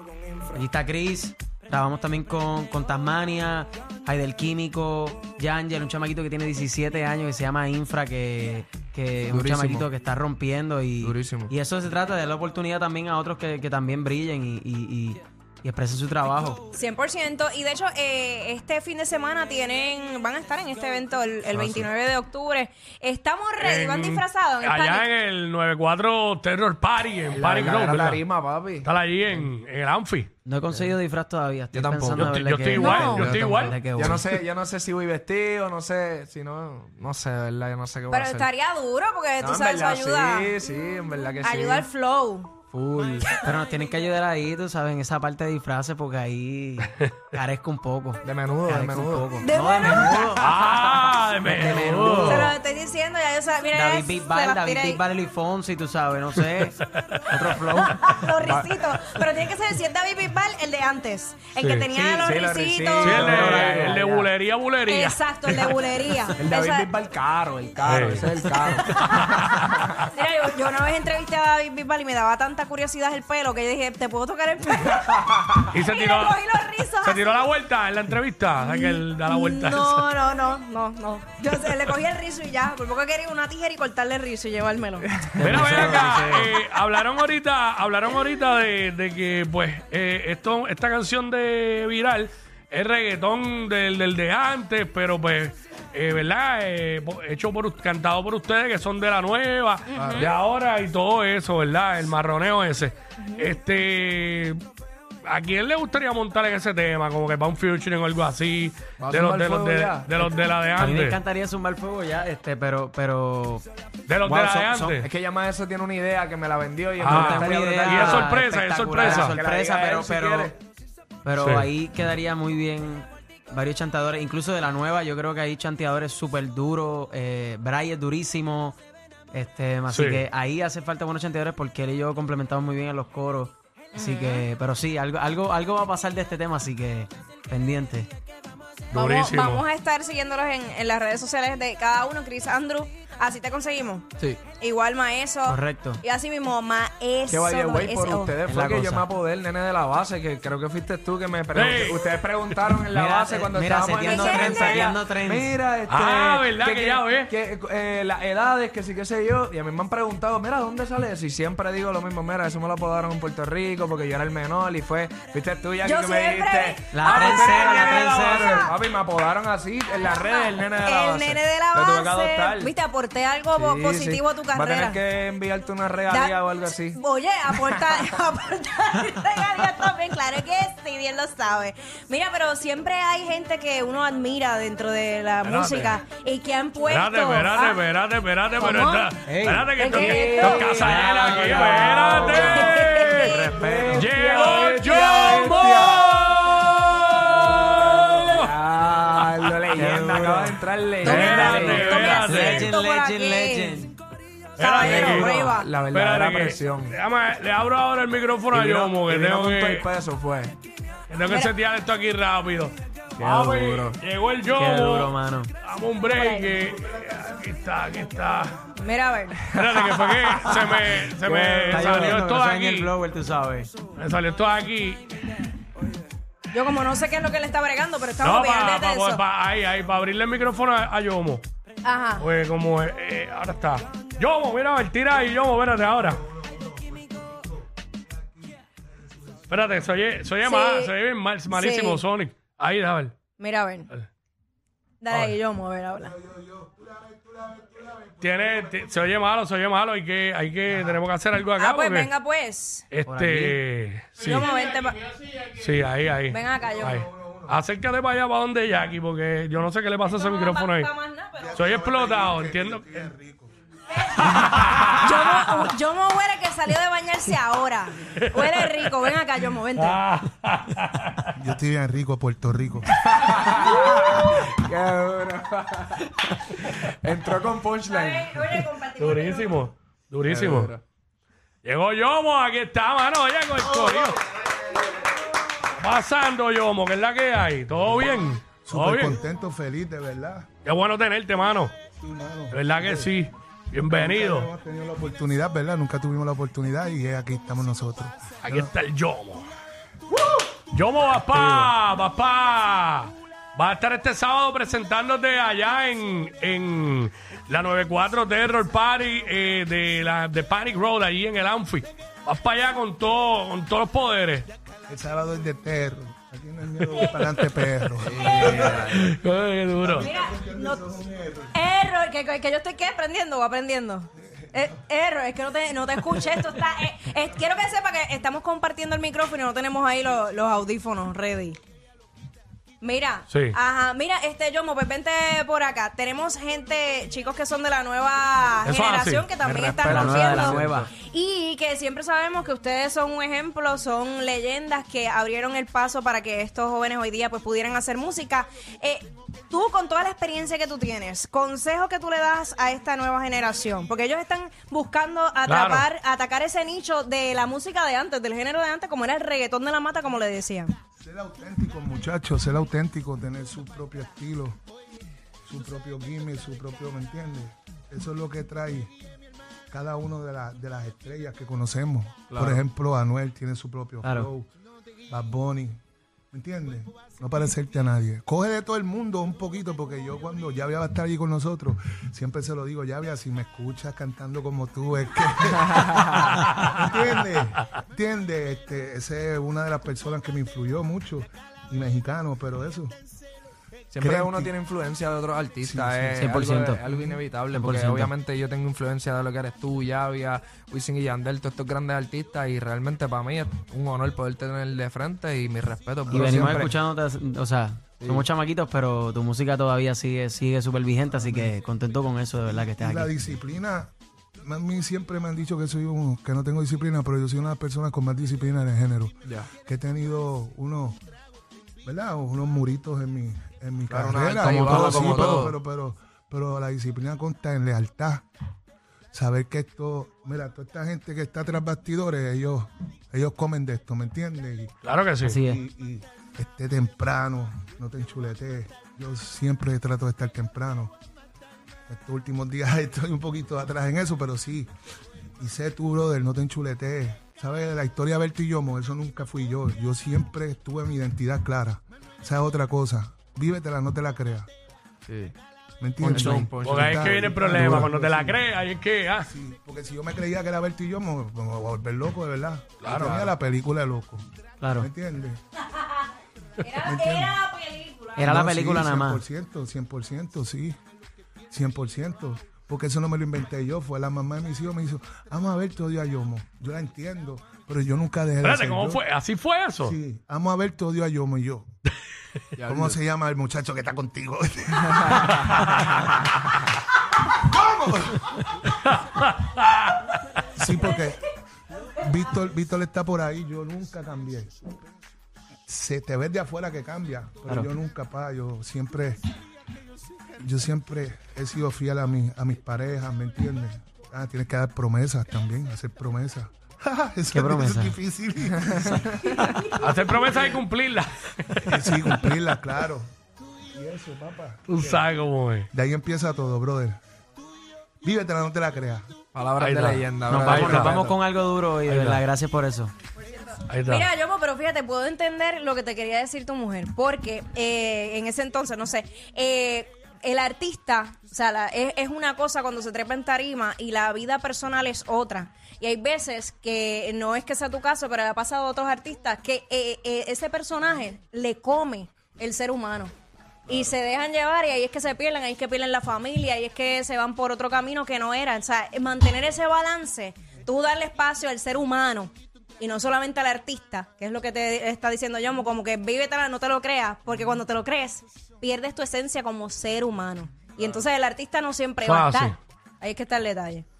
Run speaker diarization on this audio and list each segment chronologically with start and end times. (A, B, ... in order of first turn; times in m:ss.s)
0:00.2-0:00.6 A
0:00.5-0:16.6 B
0:09.3-0:09.9 A
0:11.0-0:11.5 A
0:16.7-0:25.0 C
0:21.5-0:21.9 B
0:23.6-0:28.2 D
0:27.3-0:28.9 A
0:28.8-0:30.3 D
0:30.4-0:34.2 B
0:31.7-0:32.4 A
0:32.1-0:34.0 D
0:32.8-0:33.3 C
0:33.0-0:38.5 A
0:38.1-0:40.5 C
0:39.4-0:41.9 A
0:41.4-0:42.5 C
0:42.7-0:43.3 A
0:43.4-0:50.4 B
0:48.2-0:49.3 A
0:49.4-0:50.5 C
0:49.8-0:52.5 A
0:50.4-0:52.6 D
0:51.4-0:52.5 B
0:52.2-0:55.0 C
0:53.7-0:56.8 B
0:57.0-0:57.3 D
0:57.3-0:58.0 B
0:57.8-1:03.3 C
0:58.4-0:58.7 A
1:01.6-1:01.9 D
1:01.9-1:04.0 A
1:03.0-1:06.3 D
1:03.2-1:04.3 B
1:04.9-1:06.9 C
1:06.4-1:10.0 A
1:07.8-1:08.4 D
1:09.0-1:09.6 D
1:10.1-1:17.3 C
1:15.7-1:16.4 D
1:17.0-1:20.1 D
1:18.6-1:25.1 C
1:25.3-1:26.5 B
1:25.4-1:44.6 D
1:25.5-1:26.1 A
1:39.9-1:40.3 C
1:39.9-1:40.3 A
1:43.2-1:43.5 C
1:45.2-1:51.2 D
1:49.0-1:50.3 A
1:50.8-1:53.7 B
1:54.1-1:55.1 D
1:54.2-1:58.3 A
1:57.0-1:59.4 D
1:57.0-2:00.5 B
1:59.0-2:00.6 A
2:01.2-2:08.8 B
2:01.4-2:01.7 D
2:09.3-2:18.1 B
2:09.9-2:10.2 D
2:13.9-2:14.5 C
2:18.9-2:19.6 D
2:18.9-2:28.4 C
2:24.2-2:24.4 A
2:25.5-2:26.0 B
2:27.3-2:52.7 A
2:28.5-2:29.0 B
2:31.5-2:32.0 D
2:32.9-2:35.5 B
2:34.0-2:34.8 C
2:35.9-2:37.3 D
2:45.8-2:48.8 C
2:46.9-2:48.7 B
2:50.0-2:55.0 C
2:53.5-2:57.0 A
2:56.1-3:07.8 C
2:57.5-2:58.0 A
3:05.4-3:05.9 D
3:06.8-3:13.4 D
3:08.6-3:09.1 C
3:09.3-3:14.1 B
3:09.8-3:10.9 C
3:09.9-3:12.9 A
3:12.4-3:13.4 C
3:13.5-3:16.1 A
3:13.9-3:18.5 D
3:14.4-3:15.9 C
3:18.2-3:21.9 A
3:19.7-3:24.0 B
3:21.0-3:23.8 C
3:21.0-3:22.7 D
3:24.6-3:25.7 C
3:24.6-3:29.9 D
3:24.8-3:26.9 A
3:28.5-3:30.5 A
3:31.1-3:38.5 D
3:31.2-3:31.5 C
3:33.2-3:34.0 A
3:34.5-3:35.5 B
3:36.0-3:36.6 C
3:36.6-3:38.8 E
3:38.8-3:39.4 C
3:39.5-3:40.6 A
3:39.5-3:42.9 D
3:40.4-3:43.7 B
3:44.0-3:45.0 D
3:46.5-3:49.2 C
3:48.2-3:51.4 D
3:51.8-3:52.3 C
3:52.2-3:56.2 D
3:55.8-3:59.7 E
3:59.5-4:03.1 D
4:00.4-4:00.9 C
4:01.5-4:02.0 C
4:03.4-4:03.9 C
4:05.0-4:06.1 C
4:05.9-4:09.0 E
4:08.2-4:12.1 D
4:11.6-4:12.8 C
4:12.9-4:14.5 D
4:13.0-4:13.6 B
4:14.2-4:15.0 C
4:15.5-4:20.9 D
4:16.3-4:16.8 C
4:16.6-4:17.6 E
4:20.0-4:21.6 C
4:21.4-4:23.5 E
4:21.5-4:22.9 D
4:23.9-4:24.5 C
4:24.2-4:25.6 D
4:25.0-4:30.0 C
4:28.2-4:28.9 D
4:29.8-4:31.3 D
4:31.3-4:32.9 E
4:33.0-4:38.7 A
4:34.1-4:34.4 C
4:37.9-4:39.7 C
4:39.0-4:40.7 D
4:40.2-4:40.8 A
4:41.6-4:44.2 D
4:45.7-4:49.2 D
4:48.6-4:50.5 E
4:50.6-4:51.7 D
4:51.9-4:53.3 E
4:52.5-4:54.5 D
4:53.8-4:58.7 E
4:58.4-4:59.5 D
5:00.7-5:14.5 D
5:14.9-5:19.1 E
5:16.9-5:17.9 D
5:18.0-5:19.1 A
5:18.2-5:18.6 C
5:18.6-5:20.1 D
5:19.8-5:21.5 E
5:20.0-5:20.9 C
5:21.5-5:31.6 C
5:24.2-5:24.8 E
5:32.8-6:00.7 C
5:33.3-5:33.6 D
5:38.6-5:39.3 D
5:39.4-5:40.9 A
5:39.8-5:40.9 B
5:55.4-5:55.8 D
6:01.0-6:04.6 E
6:05.4-6:08.9 E
6:09.7-6:14.5 E
6:12.3-6:12.6 A
6:14.0-6:14.3 B
6:15.1-6:15.8 E
6:16.3-6:32.9 E
6:25.7-6:26.3 A
6:33.9-6:46.8 A
6:34.0-6:34.5 E
6:35.6-6:36.3 E
6:36.2-6:36.8 B
6:36.8-6:37.2 E
6:37.5-6:38.1 B
6:46.1-6:46.7 E
6:46.1-6:53.4 B
6:48.0-6:48.3 A
6:51.1-6:51.5 E
6:52.5-7:01.0 E
7:01.8-7:08.2 E
7:03.9-7:05.6 A
7:04.4-7:05.4 B
7:09.1-7:14.7 E
7:14.8-7:15.4 D
7:15.2-7:15.6 B
7:15.3-7:20.9 E
7:21.9-7:24.7 E
7:25.4-7:34.5 E
7:35.1-7:35.3 A
7:35.8-7:38.4 E
7:36.0-7:37.1 A
7:36.0-7:36.5 B
7:36.6-7:39.3 D
7:39.2-7:45.4 E
7:42.8-7:43.3 D
7:44.6-7:44.9 B
7:46.6-7:48.3 C
7:46.8-7:47.4 E
7:48.2-7:49.2 B
7:48.2-7:50.8 E
7:51.5-7:59.0 E
7:58.4-8:00.0 D
7:59.8-8:01.7 E
8:02.6-8:03.0 A
8:02.7-8:05.8 E
8:05.0-8:05.6 A
8:05.5-8:05.9 D
8:07.3-8:08.4 E
8:08.8-8:10.0 D
8:10.5-8:11.2 E
8:12.0-8:14.5 E
8:15.7-8:19.2 E
8:20.4-8:29.7 E
8:27.3-8:28.0 B
8:28.6-8:29.3 A
8:29.8-8:32.3 D
8:31.6-8:33.1 E
8:33.7-8:35.1 E
8:34.7-8:35.7 D
8:35.7-8:37.0 E
8:38.0-8:39.1 E
8:39.3-8:41.2 A
8:39.6-8:40.9 D
8:40.3-8:42.9 B
8:41.9-8:42.2 D
8:43.7-8:44.1 D
8:43.9-9:03.1 C
9:03.7-9:23.8 C
9:22.0-9:22.6 D